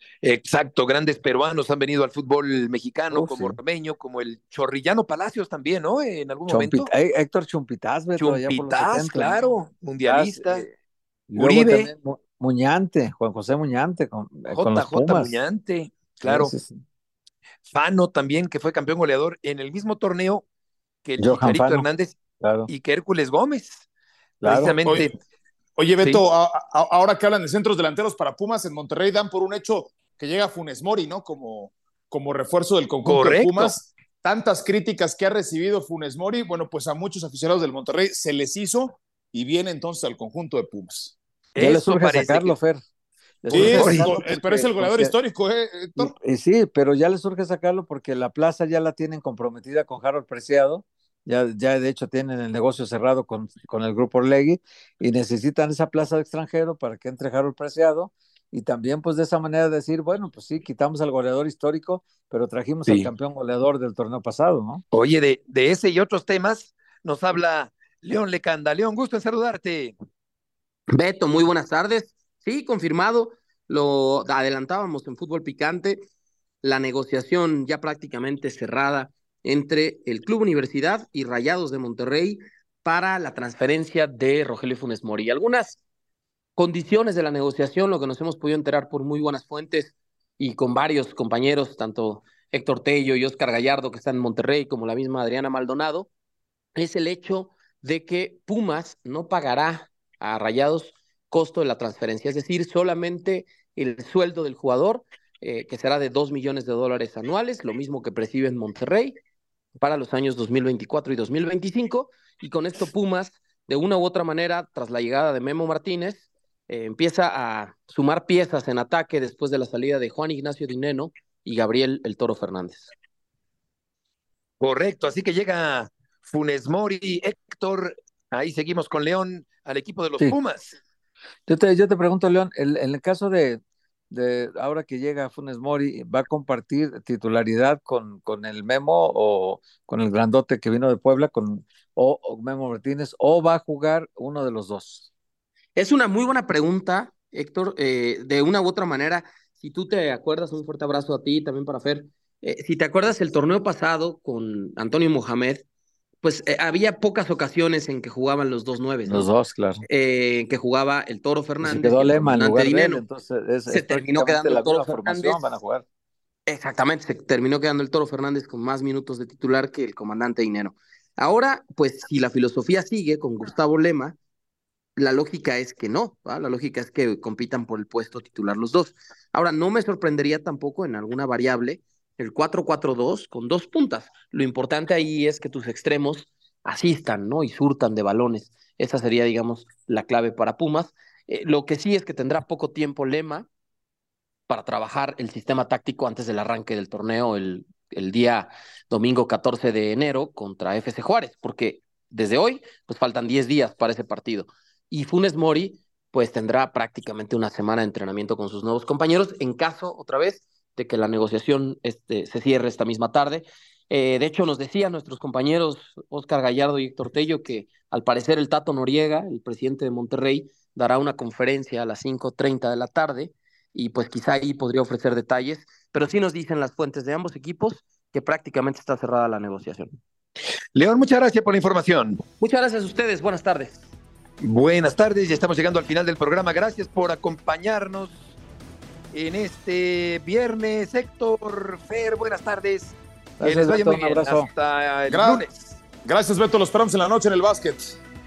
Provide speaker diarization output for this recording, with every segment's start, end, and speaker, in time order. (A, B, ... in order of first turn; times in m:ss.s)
0:00.2-0:06.9 A
0:03.1-0:03.6 B
0:06.5-0:09.4 B
0:08.2-0:10.6 A
0:10.0-0:10.7 B
0:11.3-0:15.4 B
0:11.4-0:11.9 A
0:14.5-0:16.5 A
0:16.2-0:16.8 B
0:17.7-0:20.4 A
0:21.0-0:22.2 A
0:21.2-0:21.9 B
0:22.4-0:22.7 B
0:22.7-0:23.9 A
0:24.4-0:25.1 A
0:24.4-0:24.8 B
0:25.8-0:41.2 C
0:33.0-0:33.8 A
0:41.6-0:42.5 A
0:41.6-0:42.8 B
0:43.4-0:45.1 B
0:43.5-0:44.2 A
0:43.5-0:46.1 C
0:46.0-1:04.8 B
1:04.9-1:10.0 A
1:10.9-1:16.1 D
1:16.6-1:25.8 D
1:26.6-1:36.1 D
1:36.8-1:49.2 D
1:49.8-2:02.9 D
2:04.6-2:10.8 A
2:11.5-2:13.6 B
2:14.1-2:25.1 B
2:25.8-2:35.6 D
2:36.2-2:39.3 D
2:39.1-2:39.8 B
2:39.9-2:43.0 D
2:41.6-2:45.8 B
2:43.7-2:45.4 D
2:46.5-2:54.2 D
2:55.0-3:13.5 D
3:14.5-3:50.0 D
3:50.8-3:52.2 A
3:52.4-3:53.8 D
3:54.4-3:58.3 A
3:59.1-4:05.8 A
4:03.4-4:04.5 B
4:05.1-4:05.4 C
4:06.0-4:08.0 C